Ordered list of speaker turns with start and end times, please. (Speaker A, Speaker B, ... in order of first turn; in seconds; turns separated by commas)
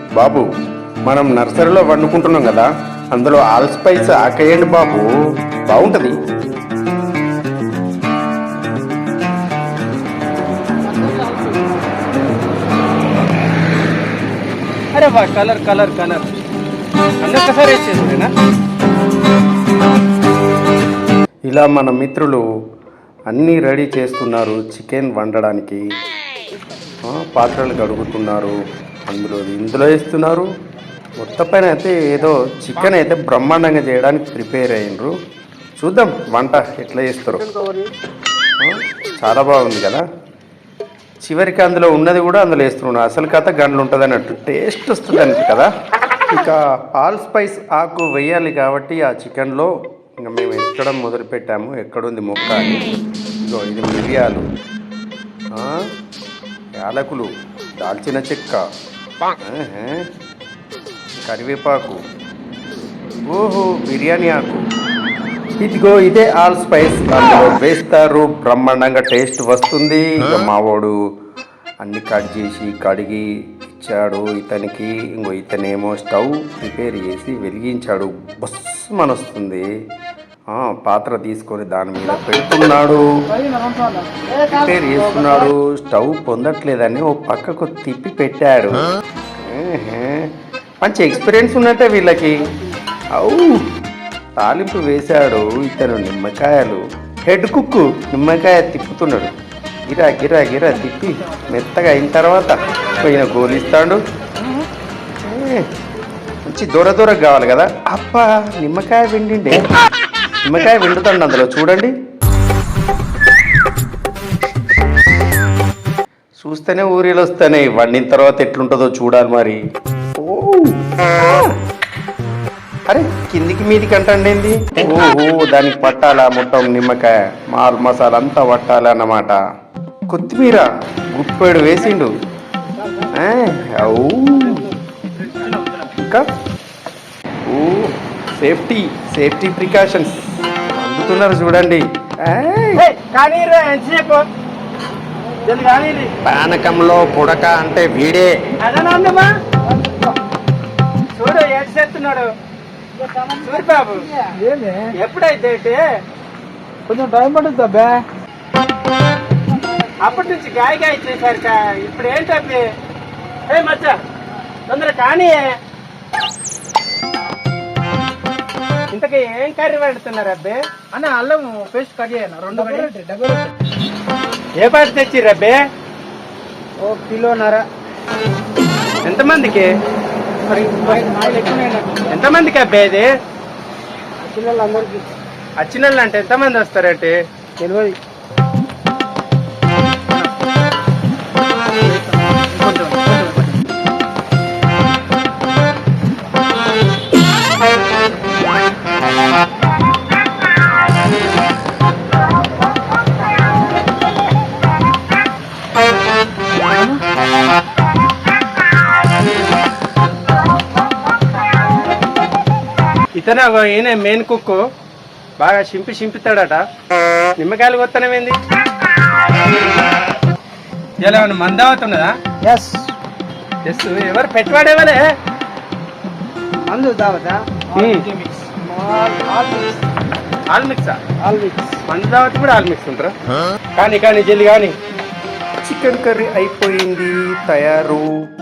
Speaker A: 0.2-0.5, Speaker A: 1.1-5.1, Speaker A: 5.7-6.1, Speaker B: 14.9-16.2, Speaker B: 17.2-18.3, Speaker A: 21.5-22.4, Speaker A: 23.3-25.8, Speaker A: 27.1-28.5, Speaker A: 29.1-30.5, Speaker A: 31.2-35.1, Speaker A: 35.8-37.4, Speaker C: 37.3-37.9, Speaker A: 38.6-40.0, Speaker A: 41.2-45.7, Speaker A: 46.3-49.7, Speaker A: 50.2-52.8, Speaker A: 53.4-54.4, Speaker A: 55.5-55.8, Speaker A: 56.8-57.3, Speaker A: 57.8-58.6, Speaker A: 59.4-60.0, Speaker A: 61.3-62.0, Speaker A: 63.3-64.6, Speaker A: 65.6-70.9, Speaker A: 71.8-73.2, Speaker A: 73.8-79.6, Speaker A: 80.5-83.0, Speaker C: 83.3-85.5, Speaker A: 84.5-88.8, Speaker A: 89.4-90.2, Speaker A: 90.8-92.4, Speaker A: 93.2-93.6, Speaker A: 94.4-99.3, Speaker A: 99.9-104.0, Speaker A: 105.2-105.6, Speaker A: 106.5-109.6, Speaker A: 110.4-111.9, Speaker A: 116.4-119.6, Speaker A: 120.2-121.5, Speaker A: 122.9-129.4, Speaker A: 130.1-132.1, Speaker C: 132.8-134.7, Speaker A: 133.1-134.6, Speaker B: 135.2-135.8, Speaker A: 135.9-136.2, Speaker A: 137.5-140.2, Speaker A: 140.8-142.8, Speaker B: 142.8-144.2, Speaker B: 145.4-146.1, Speaker A: 146.2-148.3, Speaker B: 148.6-149.3, Speaker C: 149.7-150.2, Speaker B: 151.1-152.3, Speaker C: 153.0-153.5, Speaker B: 153.4-154.1, Speaker C: 154.0-154.9, Speaker B: 155.0-155.8, Speaker C: 156.9-158.0, Speaker C: 159.5-160.2, Speaker B: 160.0-162.6, Speaker B: 163.5-164.0, Speaker B: 164.7-165.5, Speaker B: 168.9-172.9, Speaker C: 172.5-173.5, Speaker B: 174.6-175.6, Speaker C: 176.8-177.6, Speaker B: 179.0-179.7, Speaker C: 180.5-182.2, Speaker B: 180.5-183.1, Speaker C: 184.2-185.0, Speaker B: 185.6-187.1, Speaker C: 187.6-187.9, Speaker B: 191.8-193.6, Speaker C: 206.7-207.0, Speaker B: 213.2-214.6, Speaker B: 215.4-216.6, Speaker B: 217.4-218.3, Speaker B: 221.0-222.1, Speaker C: 222.4-222.9, Speaker B: 223.6-225.0, Speaker C: 226.7-229.8, Speaker B: 227.8-228.1, Speaker B: 230.5-231.0, Speaker C: 231.2-231.8, Speaker B: 231.9-233.1, Speaker B: 233.8-234.7, Speaker A: 235.6-238.1